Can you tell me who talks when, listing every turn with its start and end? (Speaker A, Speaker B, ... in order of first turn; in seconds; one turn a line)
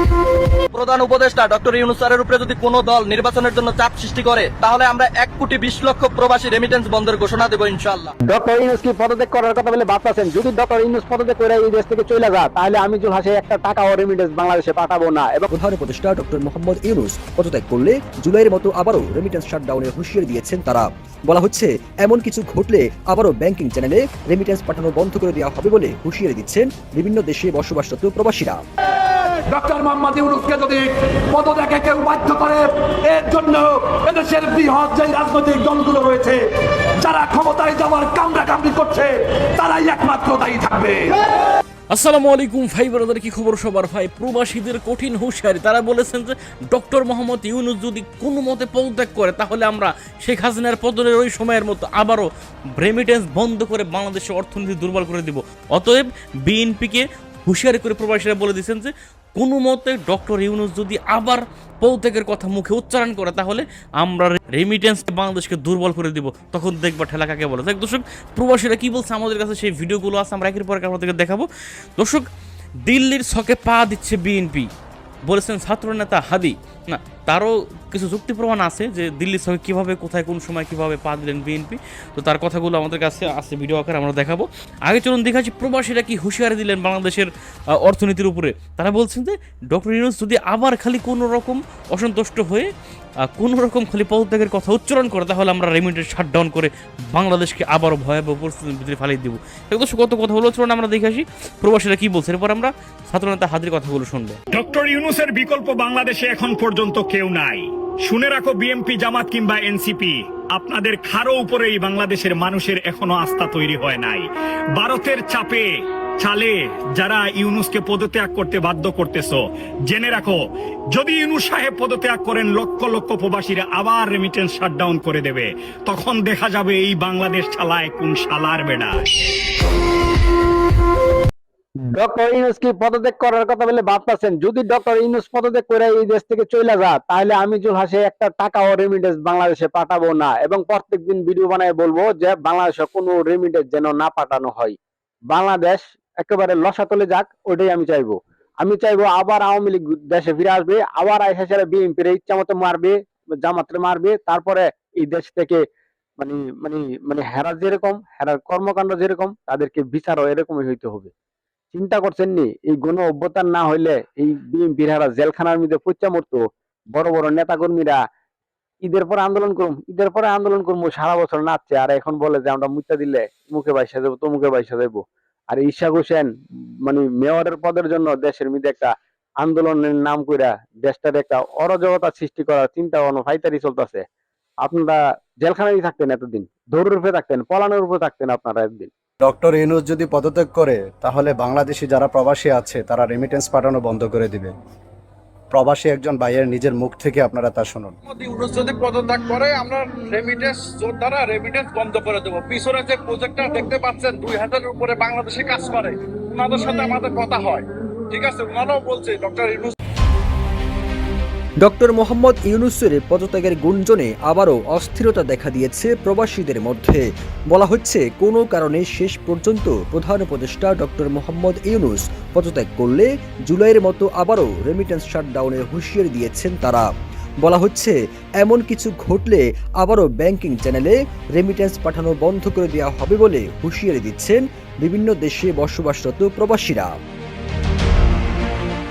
Speaker A: 0.7-8.1
Speaker B: 8.2-15.5
Speaker C: 15.5-28.6
Speaker D: 29.4-41.2
Speaker E: 41.9-71.5
Speaker E: 72.0-72.3
Speaker E: 72.9-74.7
Speaker E: 75.3-87.3
Speaker E: 87.8-92.7
Speaker E: 93.4-104.4
Speaker F: 104.5-129.0
Speaker B: 131.8-144.8
Speaker B: 145.3-155.6
Speaker B: 156.2-161.1
Speaker B: 161.7-166.4
Speaker B: 166.9-168.0
Speaker B: 168.8-176.3
Speaker B: 176.9-184.1
Speaker B: 184.6-188.9
Speaker G: 189.2-194.5
Speaker G: 195.5-197.9
Speaker H: 198.1-209.7
Speaker C: 211.6-226.9
Speaker C: 227.4-236.9